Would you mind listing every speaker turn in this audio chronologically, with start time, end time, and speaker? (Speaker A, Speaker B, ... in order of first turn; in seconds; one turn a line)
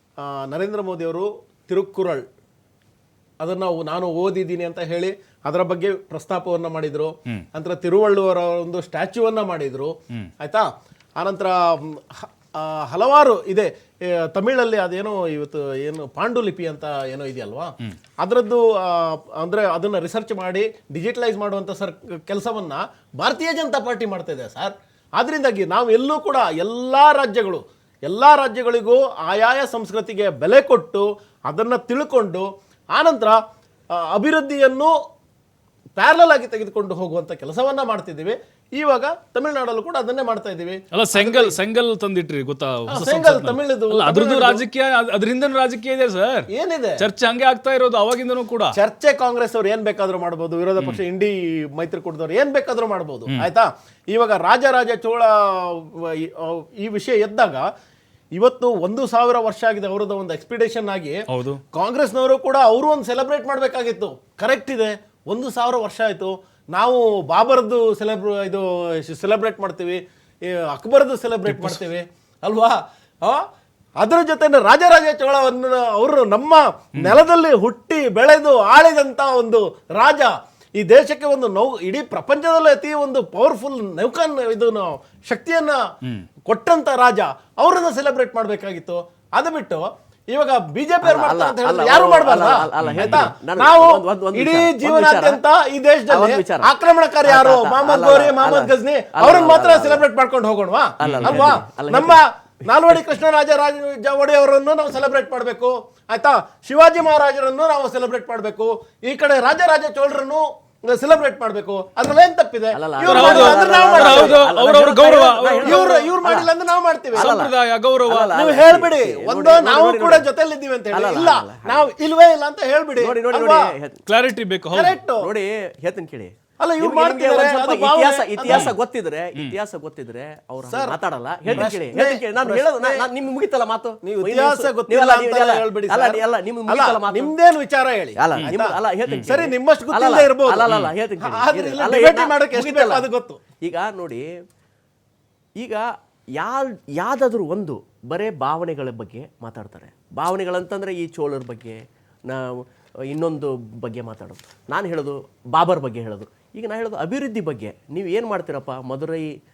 Speaker A: 0.2-2.2
Speaker A: 3.4-33.4
Speaker A: 33.9-34.9
Speaker A: 36.0-41.6
Speaker B: 40.9-48.7
Speaker A: 42.9-44.6
Speaker A: 46.5-47.0
Speaker A: 48.7-57.7
Speaker A: 58.4-61.2
Speaker B: 61.3-61.6
Speaker A: 61.7-73.4
Speaker B: 71.5-71.8
Speaker A: 74.0-85.8
Speaker A: 86.5-114.4
Speaker C: 91.0-95.4
Speaker B: 92.8-93.3
Speaker C: 96.1-96.7
Speaker C: 97.2-100.0
Speaker C: 101.0-102.2
Speaker B: 101.0-101.5
Speaker C: 112.7-116.5
Speaker B: 113.1-115.8
Speaker A: 115.6-117.3
Speaker B: 117.1-118.3
Speaker C: 117.2-117.5
Speaker C: 118.0-120.2
Speaker A: 118.3-123.7
Speaker C: 120.9-121.9
Speaker C: 123.0-124.0
Speaker B: 124.1-125.0
Speaker A: 124.7-125.3
Speaker C: 125.2-137.3
Speaker A: 126.6-128.7
Speaker B: 128.5-128.7
Speaker A: 130.7-130.9
Speaker A: 131.5-133.1
Speaker A: 134.0-143.4
Speaker C: 138.2-143.1
Speaker C: 143.6-144.2
Speaker C: 145.6-145.8
Speaker C: 146.4-159.3